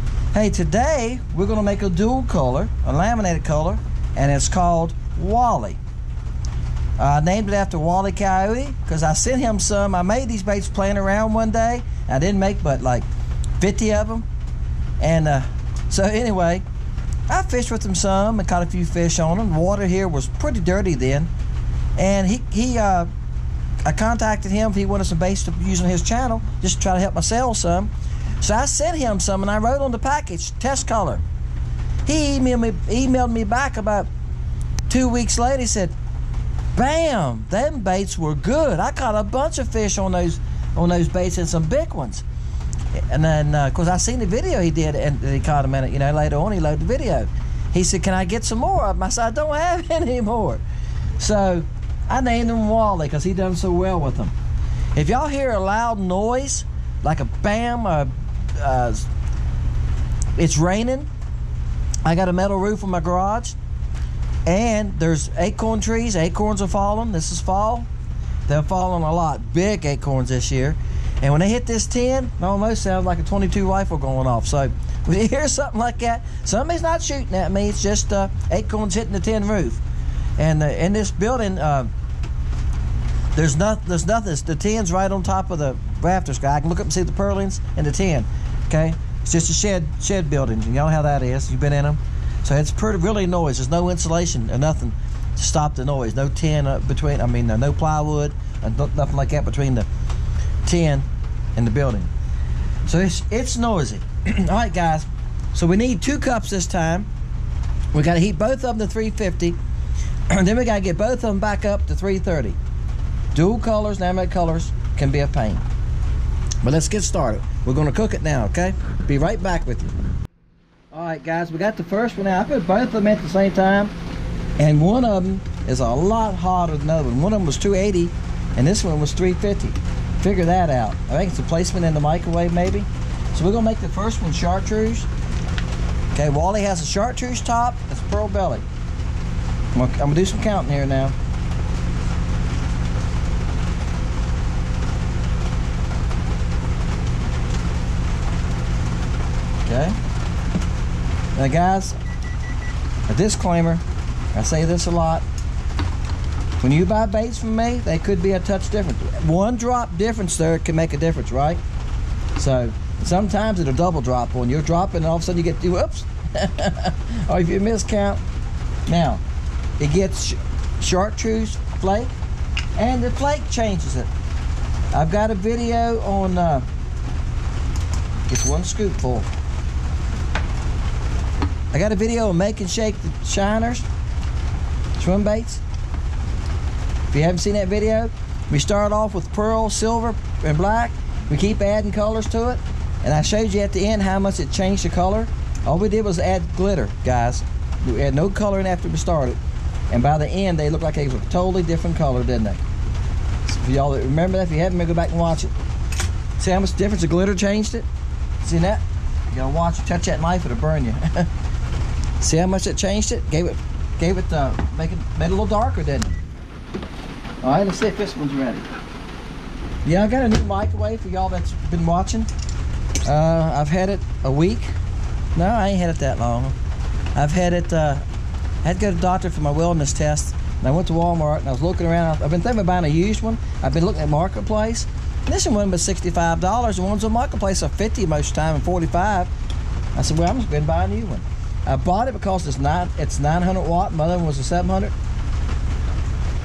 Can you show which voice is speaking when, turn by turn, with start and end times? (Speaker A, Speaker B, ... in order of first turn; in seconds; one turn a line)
Speaker A: 0.3-5.8
Speaker A: 7.0-13.1
Speaker A: 13.6-14.3
Speaker A: 15.0-16.6
Speaker A: 17.3-21.3
Speaker A: 22.0-23.1
Speaker A: 23.9-31.2
Speaker A: 32.0-34.1
Speaker A: 34.9-36.0
Speaker A: 36.8-42.2
Speaker A: 43.0-50.6
Speaker A: 51.2-54.3
Speaker A: 54.9-59.1
Speaker A: 60.4-61.1
Speaker A: 62.0-63.6
Speaker A: 64.5-67.9
Speaker A: 68.5-79.8
Speaker A: 80.4-81.9
Speaker A: 83.3-99.9
Speaker A: 100.6-102.1
Speaker A: 102.9-107.1
Speaker A: 107.9-109.6
Speaker A: 110.3-112.6
Speaker A: 113.3-115.7
Speaker A: 116.6-119.9
Speaker A: 120.9-123.9
Speaker A: 124.6-135.1
Speaker A: 136.1-138.7
Speaker A: 139.7-141.1
Speaker A: 149.7-149.9
Speaker A: 151.3-152.0
Speaker A: 153.1-153.8
Speaker A: 154.3-155.2
Speaker A: 156.6-161.6
Speaker A: 162.3-168.2
Speaker A: 168.8-169.2
Speaker A: 169.8-172.2
Speaker A: 172.8-174.1
Speaker A: 174.9-176.7
Speaker A: 178.3-179.3
Speaker A: 181.7-183.8
Speaker A: 185.0-185.6
Speaker A: 187.1-199.4
Speaker A: 199.9-202.6
Speaker A: 203.4-205.5
Speaker A: 206.4-207.9
Speaker A: 208.4-211.3
Speaker A: 212.2-216.2
Speaker A: 217.4-218.7
Speaker A: 219.8-222.3
Speaker A: 223.0-224.7
Speaker A: 225.3-226.6
Speaker A: 227.1-228.0
Speaker A: 228.6-239.3
Speaker A: 239.9-244.9